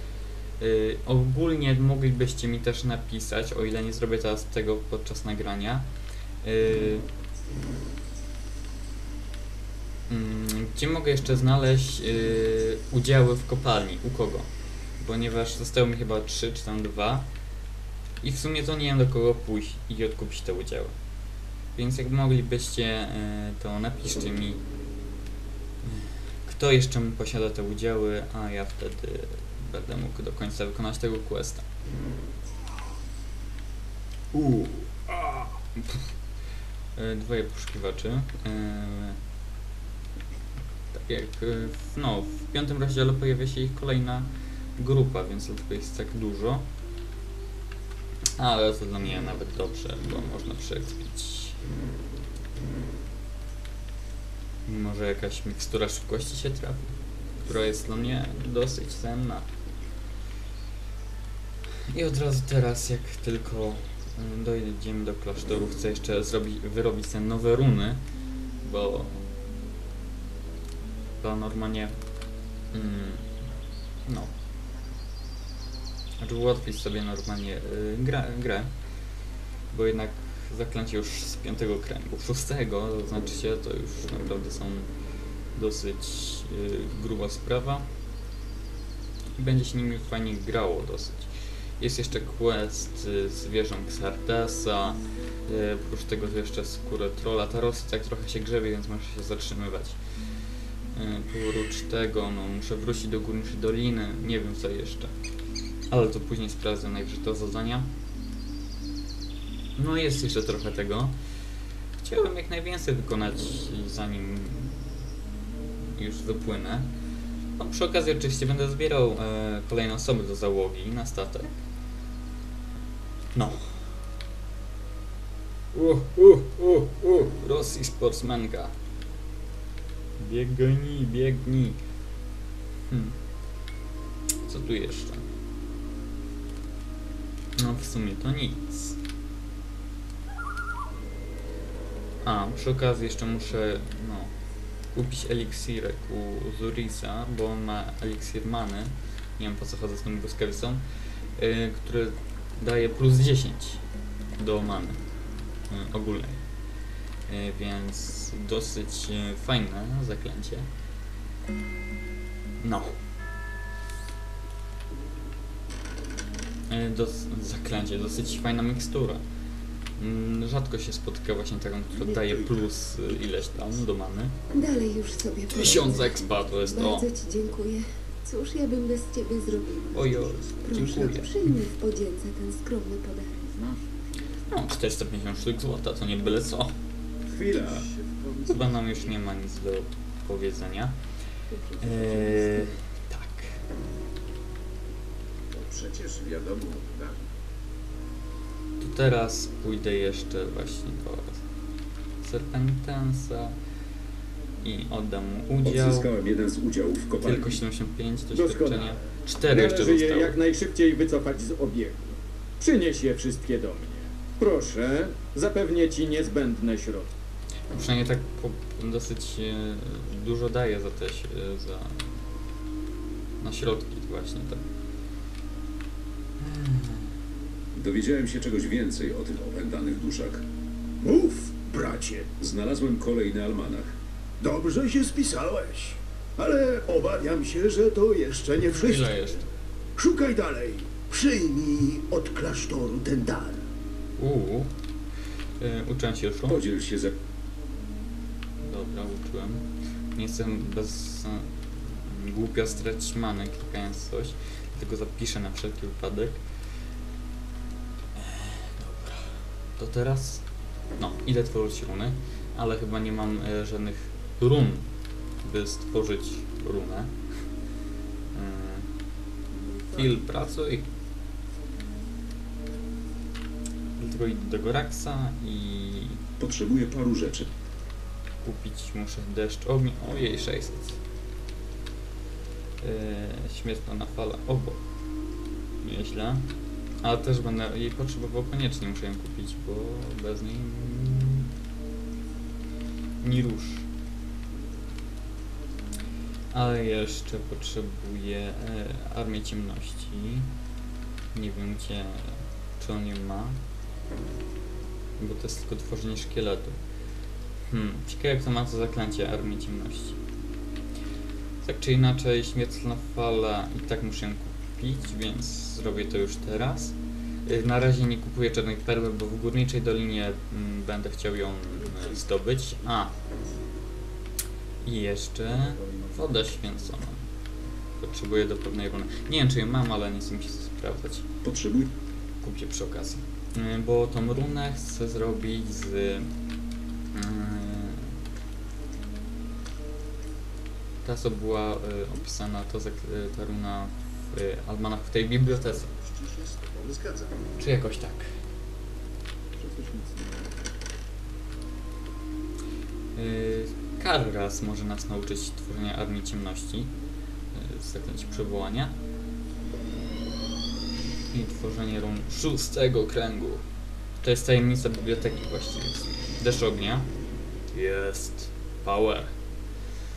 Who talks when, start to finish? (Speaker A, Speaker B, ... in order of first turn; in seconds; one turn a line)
Speaker A: 0.6-5.9
Speaker A: 6.4-7.0
Speaker A: 10.1-14.5
Speaker A: 15.0-17.3
Speaker A: 18.2-20.9
Speaker A: 21.7-24.6
Speaker A: 25.8-31.7
Speaker A: 34.3-36.1
Speaker A: 37.0-39.2
Speaker A: 40.9-46.6
Speaker A: 48.4-51.6
Speaker A: 54.6-59.5
Speaker A: 61.9-68.0
Speaker A: 68.6-69.2
Speaker A: 71.2-71.9
Speaker A: 72.7-73.3
Speaker A: 74.0-74.3
Speaker A: 76.2-78.7
Speaker A: 79.7-84.9
Speaker A: 85.5-87.8
Speaker A: 89.3-100.0
Speaker A: 100.9-105.1
Speaker A: 105.9-107.9
Speaker A: 109.8-111.1
Speaker A: 112.0-115.0
Speaker A: 116.0-116.9
Speaker A: 117.6-121.6
Speaker A: 123.3-123.9
Speaker A: 125.7-128.7
Speaker A: 130.2-131.8
Speaker A: 132.9-133.2
Speaker A: 134.4-135.2
Speaker A: 137.6-138.9
Speaker A: 142.2-144.3
Speaker A: 144.9-150.8
Speaker A: 151.4-153.8
Speaker A: 154.4-155.0
Speaker A: 155.7-156.4
Speaker A: 157.3-160.7
Speaker A: 162.6-163.0
Speaker A: 166.7-169.2
Speaker A: 170.0-174.3
Speaker B: 172.1-172.4
Speaker C: 174.5-183.6
Speaker A: 175.5-177.1
Speaker A: 179.9-181.5
Speaker A: 184.5-186.7
Speaker B: 187.3-187.8
Speaker D: 187.6-188.7
Speaker A: 188.5-190.9
Speaker D: 191.6-192.7
Speaker A: 191.8-193.6
Speaker B: 195.6-197.1
Speaker A: 198.8-201.4
Speaker A: 202.2-203.5
Speaker A: 204.6-206.1
Speaker B: 205.6-207.6
Speaker A: 207.2-210.4
Speaker E: 208.3-208.9
Speaker E: 209.4-217.1
Speaker A: 217.7-222.1
Speaker A: 223.4-224.6
Speaker A: 226.4-227.1
Speaker B: 227.7-230.4
Speaker D: 231.0-232.3
Speaker B: 232.4-233.9
Speaker D: 234.4-239.2
Speaker A: 238.5-239.4
Speaker D: 240.0-243.6
Speaker A: 244.2-244.7
Speaker A: 245.6-246.6
Speaker B: 246.5-247.2
Speaker A: 248.6-256.4
Speaker A: 258.1-260.4
Speaker A: 261.0-264.9
Speaker A: 265.4-267.1
Speaker A: 268.3-268.9
Speaker C: 269.6-270.0
Speaker A: 269.9-270.9
Speaker A: 274.0-276.2
Speaker B: 276.4-277.5
Speaker A: 278.4-281.0
Speaker A: 282.8-284.8
Speaker A: 285.8-286.4
Speaker A: 287.0-291.5
Speaker A: 293.2-293.9
Speaker A: 296.5-300.5
Speaker A: 301.3-303.6
Speaker A: 305.2-306.8
Speaker A: 307.7-310.2
Speaker A: 311.6-323.1
Speaker A: 324.8-327.2
Speaker A: 328.0-331.3
Speaker B: 331.4-331.9
Speaker A: 332.4-336.3
Speaker A: 337.1-338.1
Speaker A: 341.0-345.9
Speaker D: 346.0-347.2
Speaker A: 347.6-348.3
Speaker B: 349.6-350.1
Speaker A: 353.1-356.9
Speaker A: 357.5-358.9
Speaker A: 361.3-363.6
Speaker A: 364.2-367.1
Speaker A: 367.7-369.3